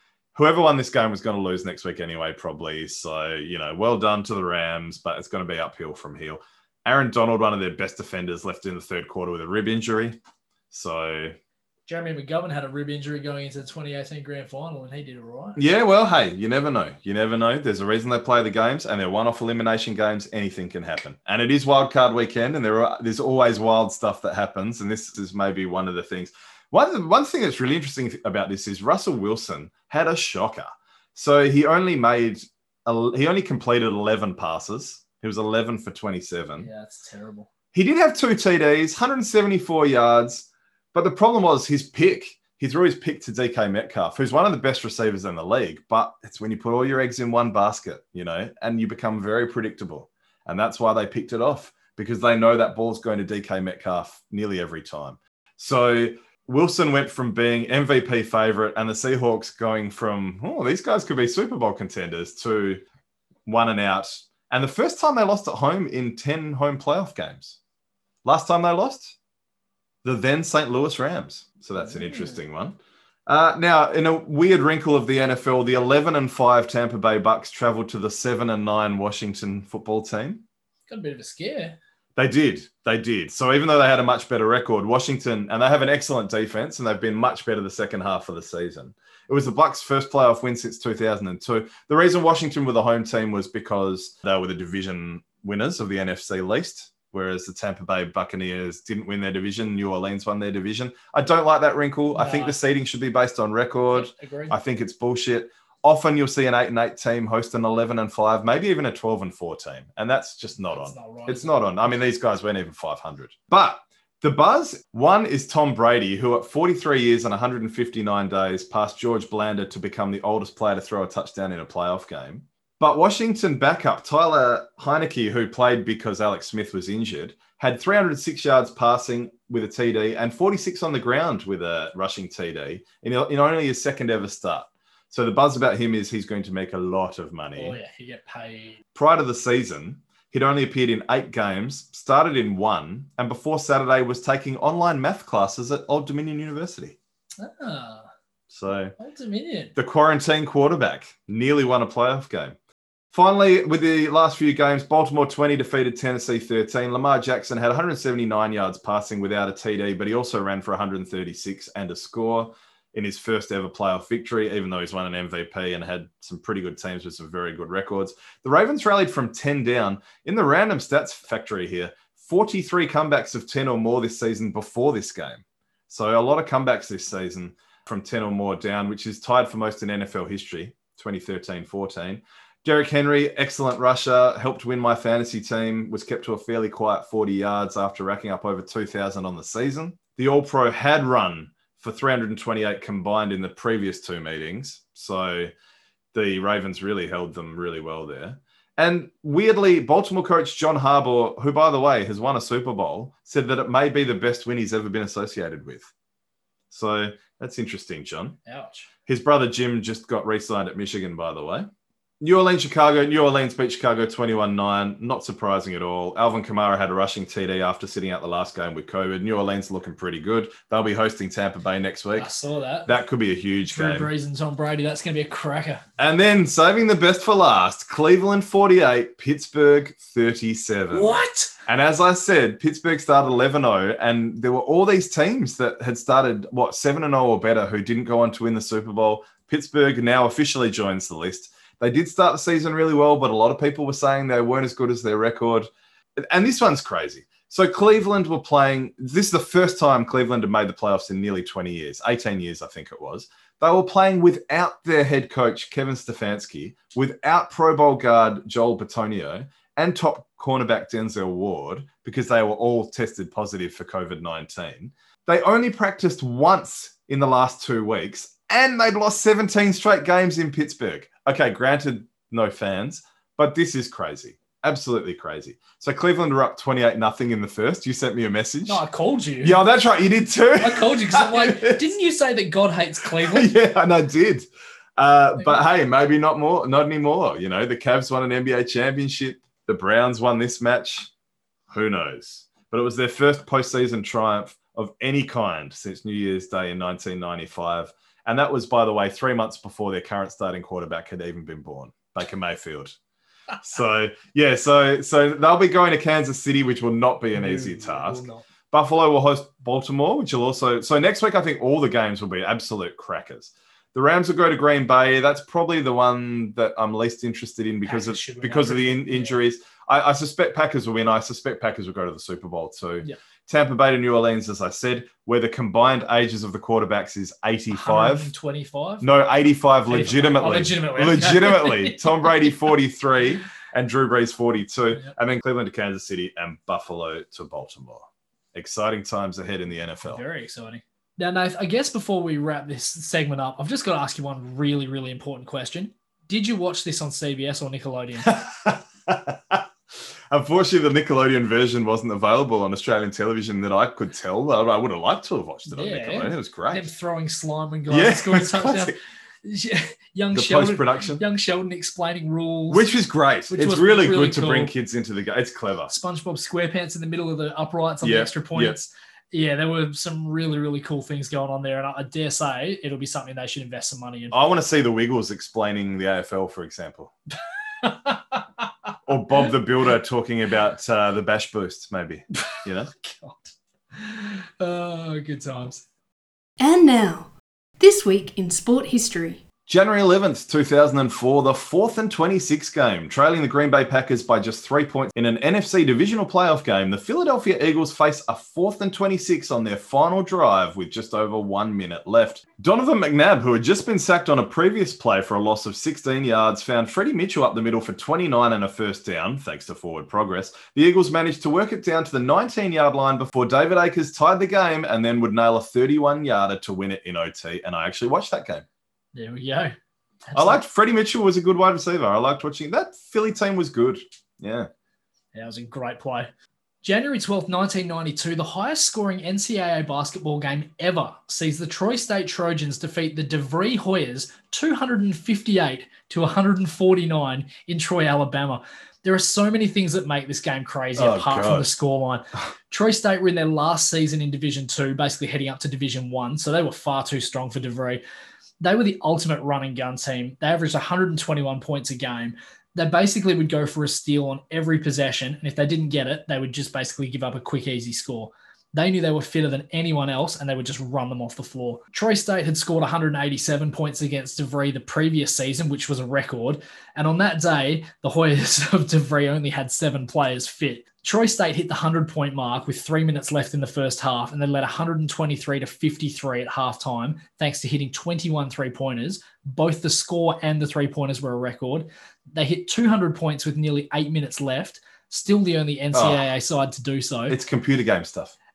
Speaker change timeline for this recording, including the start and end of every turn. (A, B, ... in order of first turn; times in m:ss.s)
0:00.3-0:10.2 A
0:10.7-0:11.4 A
0:11.9-0:15.6 B
0:15.6-0:36.7 A
0:36.6-0:37.5 B
0:37.7-1:02.8 A
1:03.4-1:07.6 A
1:08.2-1:09.2 A
1:10.0-1:20.4 A
1:11.8-1:12.4 B
1:20.9-1:21.8 B
1:22.2-2:17.8 A
1:42.1-1:42.6 B
1:43.9-1:44.6 B
1:50.7-1:52.0 B
2:17.6-2:18.8 B
2:18.9-2:27.0 A
2:27.4-2:28.1 B
2:28.5-2:29.0 A
2:29.0-2:29.7 B
2:29.8-2:32.6 A
2:33.1-3:15.5 A
3:16.1-3:25.9 A
3:26.7-3:28.4 A
3:28.4-3:28.9 B
3:29.0-3:31.7 A
3:32.2-3:42.3 A
3:42.2-3:42.9 B
3:42.8-3:44.1 A
3:43.7-3:45.8 B
3:46.0-4:38.8 A
3:50.9-3:51.5 B
4:38.6-4:39.6 B
4:39.4-4:41.9 A
4:40.6-4:43.5 B
4:43.2-4:51.1 A
4:51.7-5:02.9 A
5:03.6-5:28.3 A
5:07.3-5:08.4 B
5:17.8-5:19.4 B
5:27.7-5:29.0 B
5:29.0-5:40.2 A
5:29.9-5:32.5 B
5:40.0-5:48.3 B
5:48.2-5:49.6 A
5:50.3-5:56.8 A
5:55.6-6:02.9 B
5:57.9-5:58.9 A
6:00.3-6:01.2 A
6:02.7-6:05.9 A
6:03.5-6:04.7 B
6:05.9-6:14.3 B
6:08.0-6:08.8 A
6:14.3-6:17.1 A
6:17.8-6:18.7 B
6:19.0-6:22.9 A
6:23.0-6:25.8 B
6:26.6-6:29.4 C
6:29.7-6:58.6 A
6:59.1-6:59.7 B
7:00.2-7:00.6 B
7:00.3-7:04.7 A
7:05.3-7:06.3 B
7:06.8-7:28.0 B
7:21.0-7:21.7 A
7:28.6-8:07.4 B
8:05.9-8:06.2 A
8:07.3-8:08.3 A